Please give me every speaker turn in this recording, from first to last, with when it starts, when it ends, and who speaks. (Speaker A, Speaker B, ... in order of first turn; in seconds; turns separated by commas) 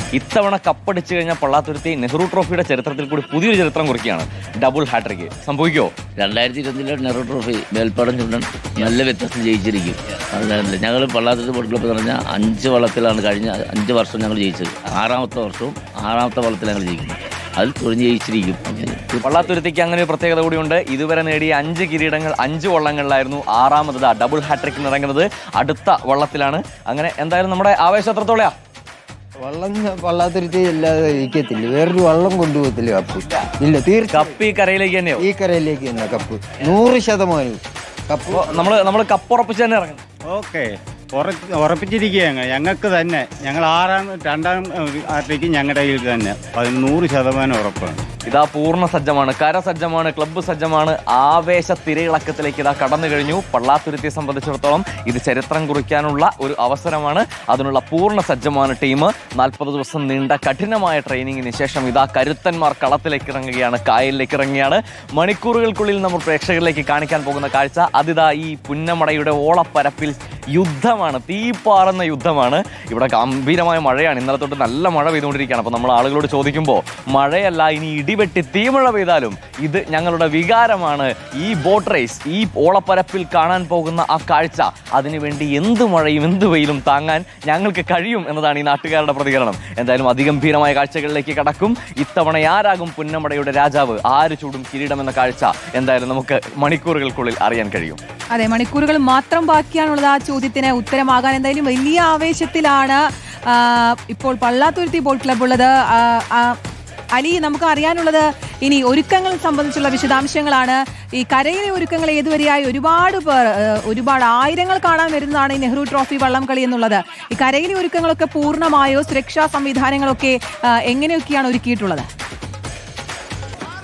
Speaker A: 0.1-6.0, Speaker B: 6.2-19.5, Speaker A: 19.2-28.5, Speaker C: 29.4-34.4, Speaker A: 34.0-35.3, Speaker C: 35.2-38.5, Speaker A: 38.3-40.0, Speaker D: 40.3-48.0, Speaker A: 48.3-98.0, Speaker E: 98.3-106.5, Speaker E: 107.1-120.3, Speaker E: 120.9-122.1